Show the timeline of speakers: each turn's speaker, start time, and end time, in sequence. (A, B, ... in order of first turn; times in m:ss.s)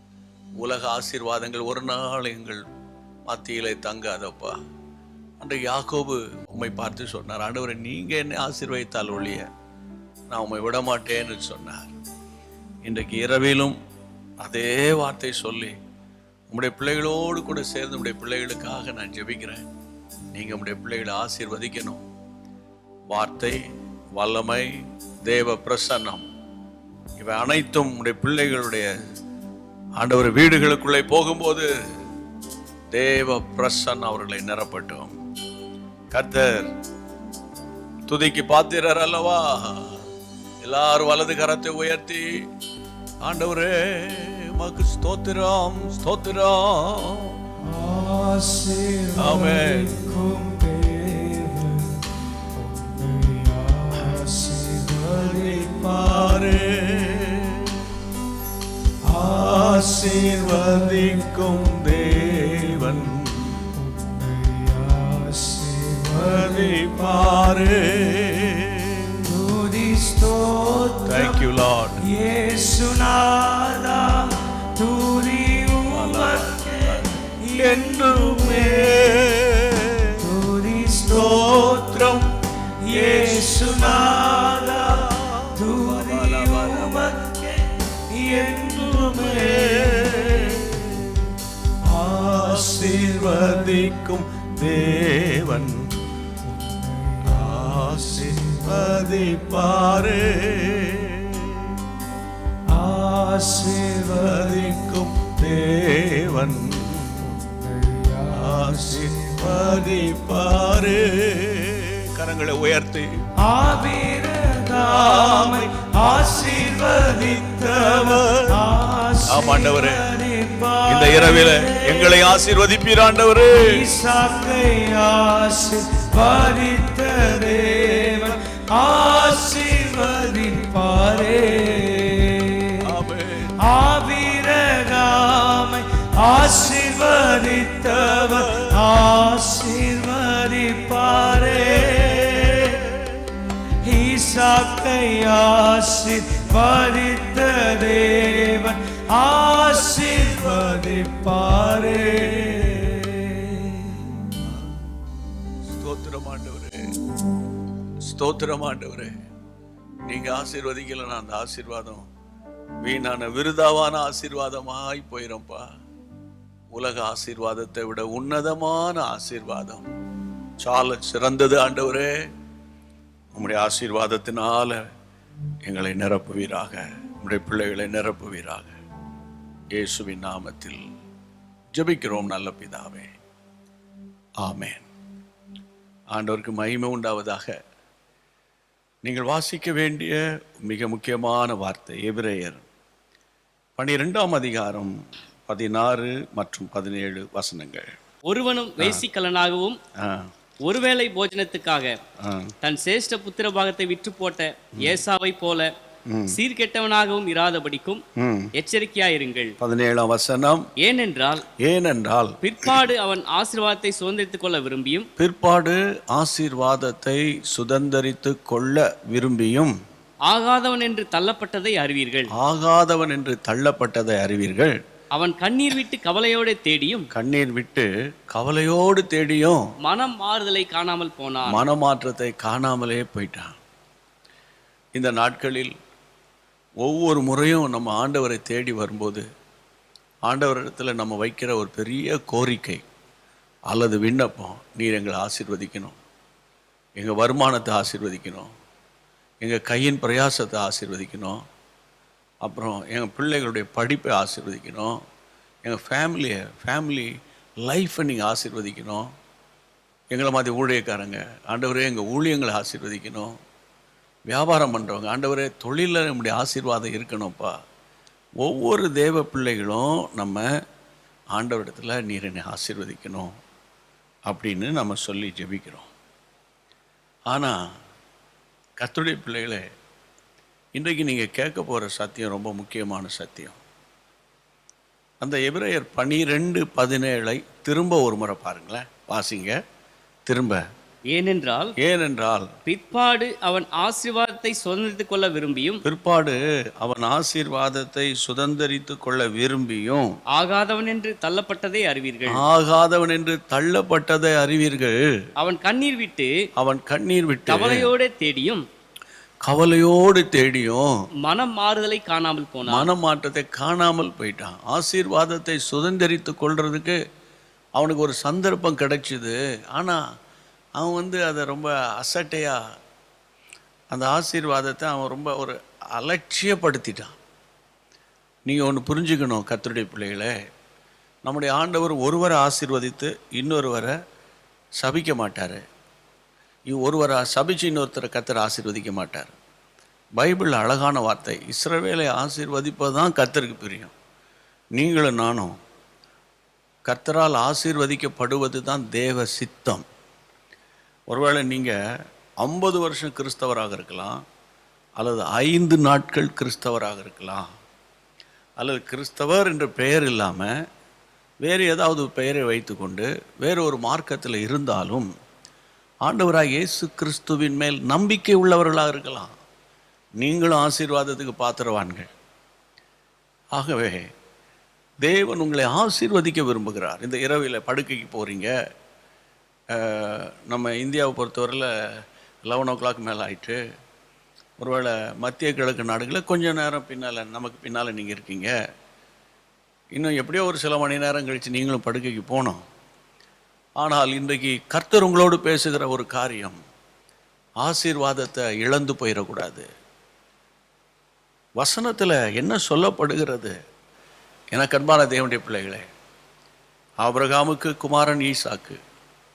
0:00.6-0:02.6 A
0:03.3-0:04.6 A
0:05.4-0:09.4 A
0:10.3-0:11.9 A
0:12.8-0:13.8 A
0:14.4-0:15.7 A
0:16.5-0:19.6 A
0:20.3-0:22.0 A
0:23.1-0:23.6 A
0:24.2-0:24.7 A
0:25.2-0:26.2 A
0:27.2-0:28.9 A
0:30.0-0:31.7 A
0:32.9-0:35.1 A
0:36.1-0:36.7 A
0:38.1-0:40.0 A
0:40.6-0:42.4 A
0:43.2-0:47.3 A
0:47.6-0:56.5 B
0:49.2-0:49.9 A
0:55.0-0:57.8 A
0:59.1-1:01.7 B
0:59.2-1:03.7 A
1:02.3-1:03.0 B
1:03.7-1:07.1 B
1:06.2-1:09.2 A
1:09.2-1:11.4 B
1:11.0-1:12.1 A
1:12.0-1:19.2 B
1:15.9-1:20.2 A
1:20.2-1:22.3 B
1:21.1-1:22.3 A
1:22.8-1:31.1 B
1:22.9-1:27.1 A
1:29.2-1:31.2 A
1:31.8-1:34.0 B
1:32.0-1:35.9 A
1:34.7-1:35.4 B
1:36.4-1:39.2 B
1:37.3-1:41.7 A
1:42.7-1:45.0 B
1:44.1-1:47.3 A
1:47.4-1:50.3 B
1:48.3-1:53.2 A
1:53.4-2:02.2 B
1:54.8-1:55.7 A
1:56.9-1:58.6 A
1:59.3-2:00.0 A
2:00.9-2:03.8 A
2:03.5-2:12.7 B
2:07.8-2:08.1 A
2:12.8-2:13.5 A
2:13.6-2:22.8 B
2:18.0-2:18.7 A
2:21.3-2:23.0 A
2:23.8-2:34.2 B
2:32.3-2:32.9 A
2:35.7-2:36.8 A
2:38.0-2:39.1 A
2:40.1-2:42.0 A
2:42.8-2:45.6 A
2:46.7-2:49.9 A
2:50.6-2:52.1 A
2:53.3-2:54.8 A
2:55.6-2:58.7 A
2:59.7-3:00.8 A
3:01.7-3:03.1 A
3:04.4-3:04.8 A
3:06.1-3:07.5 A
3:09.0-3:12.6 A
3:13.8-3:14.9 A
3:15.5-3:17.9 A
3:18.3-3:19.8 C
3:20.0-3:20.3 A
3:20.6-3:22.0 C
3:22.2-3:22.5 A
3:22.6-3:25.7 C
3:26.1-3:26.4 A
3:26.3-3:28.0 C
3:28.2-3:28.5 A
3:28.6-3:29.5 C
3:29.6-3:30.7 A
3:30.8-3:31.4 C
3:31.6-3:32.7 A
3:32.4-3:35.1 C
3:35.2-3:39.8 A
3:40.3-3:42.3 C
3:42.3-3:44.8 A
3:45.1-3:47.1 C
3:47.1-3:49.6 A
3:49.8-3:51.6 C
3:51.5-3:53.6 A
3:54.9-3:55.7 A
3:56.8-3:59.2 A
4:00.2-4:02.8 A
4:03.7-4:06.0 A
4:07.0-4:08.5 A
4:09.4-4:11.4 A
4:12.4-4:15.0 A
4:15.6-4:17.1 A
4:17.6-4:19.1 A
4:20.1-4:23.3 A
4:24.3-4:27.6 A
4:28.4-4:30.4 A
4:31.3-4:33.3 A
4:34.3-4:35.9 A
4:37.3-4:37.6 A
4:38.8-4:39.6 A
4:40.7-4:43.6 A
4:45.2-4:49.5 A
4:50.3-4:50.6 A
4:51.1-4:51.7 C
4:51.8-4:52.5 A
4:52.7-4:55.8 C
4:55.8-5:00.1 A
5:00.3-5:02.4 C
5:02.3-5:05.0 A
5:05.4-5:06.3 C
5:06.6-5:07.9 A
5:07.5-5:08.6 C
5:09.4-5:10.9 A
5:11.2-5:12.8 C
5:12.7-5:17.0 A
5:17.8-5:20.0 A
5:20.8-5:22.6 A
5:23.9-5:27.1 A
5:28.5-5:30.3 A
5:31.2-5:33.9 A
5:34.8-5:35.6 A
5:36.7-5:39.3 A
5:40.2-5:43.9 A
5:44.8-5:45.5 A
5:46.9-5:49.8 A
5:51.1-5:51.7 A
5:52.4-5:54.2 A
5:55.0-5:57.4 A
5:58.6-6:00.5 A
6:01.4-6:05.1 A
6:06.0-6:09.3 A
6:10.2-6:12.1 A
6:13.5-6:14.1 A
6:15.0-6:18.5 A
6:19.7-6:21.7 A
6:22.4-6:23.6 A
6:24.6-6:28.5 A
6:30.0-6:32.6 A
6:33.8-6:36.6 A
6:37.6-6:39.7 A
6:41.6-6:43.5 A
6:44.5-6:45.8 A
6:47.0-6:48.8 A